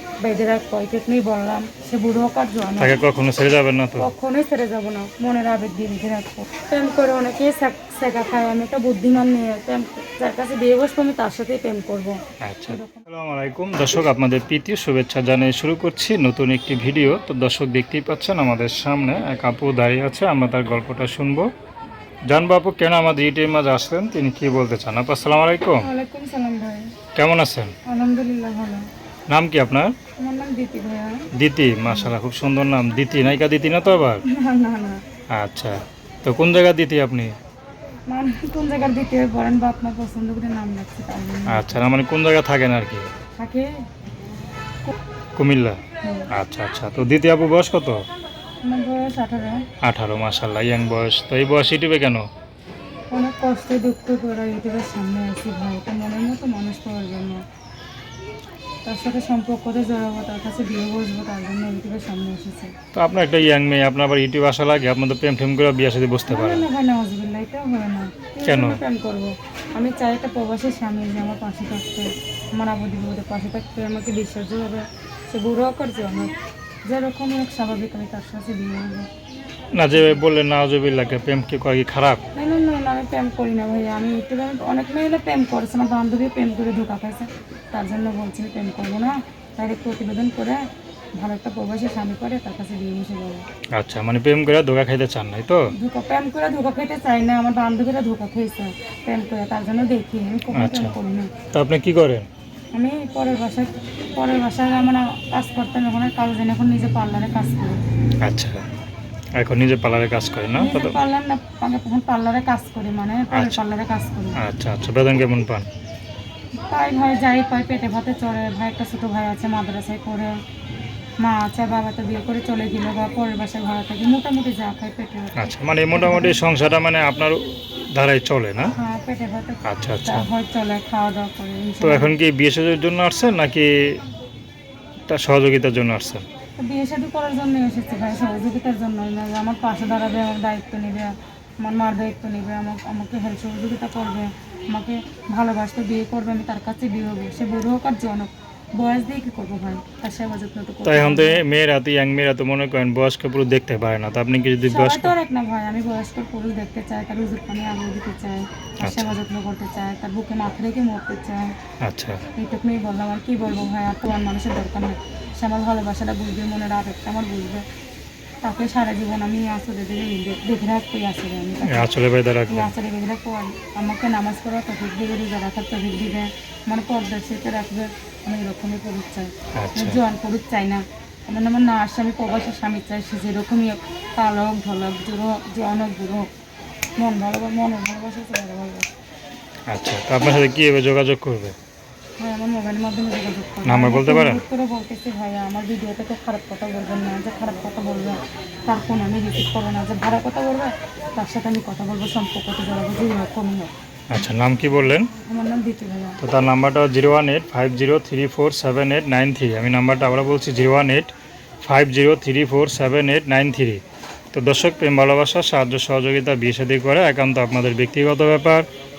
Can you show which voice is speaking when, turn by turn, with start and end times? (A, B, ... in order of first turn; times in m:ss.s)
0:00.2-0:02.9 A
0:02.8-0:04.1 B
0:04.0-0:12.2 A
0:12.4-0:21.5 B
0:12.7-0:13.0 A
0:22.3-0:25.8 B
0:25.8-0:26.9 A
0:27.2-0:27.7 B
0:27.8-0:28.8 A
0:29.3-0:29.9 B
0:30.2-0:31.2 A
0:31.4-0:34.2 B
0:31.8-0:32.1 A
0:34.2-0:35.0 A
0:35.3-0:37.3 B
0:38.1-0:41.9 A
0:41.5-0:43.1 B
0:43.4-0:43.8 A
0:45.4-0:45.8 B
0:46.0-0:46.3 A
0:46.3-0:48.0 B
0:48.6-0:49.6 A
0:49.8-0:52.2 B
0:53.1-0:57.4 A
0:58.8-1:02.7 A
1:02.9-1:06.7 B
1:06.3-1:16.3 A
1:08.4-1:08.8 B
1:16.8-1:19.1 A
1:19.8-1:22.2 B
1:19.9-1:20.2 A
1:22.3-1:30.6 A
1:31.2-1:33.4 A
1:33.8-1:35.7 B
1:35.7-1:41.3 A
1:40.5-1:40.9 B
1:41.5-1:42.3 B
1:42.7-1:47.8 A
1:48.2-1:48.6 B
1:49.4-1:51.0 B
1:50.5-1:54.4 A
1:53.3-1:53.6 B
1:54.4-1:55.7 B
1:56.7-2:00.3 A
2:01.2-2:06.4 A
2:05.4-2:07.4 B
2:07.9-2:08.7 B
2:08.7-2:12.1 A
2:09.6-2:10.3 B
2:11.8-2:13.7 B
2:15.1-2:16.2 B
2:16.6-2:31.4 A
2:30.8-2:35.1 B
2:34.6-2:41.5 A
2:38.8-2:39.2 B
2:41.8-2:42.2 B
2:42.4-2:47.6 A
2:48.4-2:51.8 A
2:51.6-2:52.7 B
2:52.5-3:06.2 A
2:59.6-3:00.0 B
3:07.0-3:08.9 A
3:09.7-3:11.5 B
3:12.2-3:23.7 A
3:13.6-3:14.4 B
3:24.1-3:25.1 B
3:25.1-3:26.2 A
3:26.2-3:33.8 B
3:34.3-3:38.6 B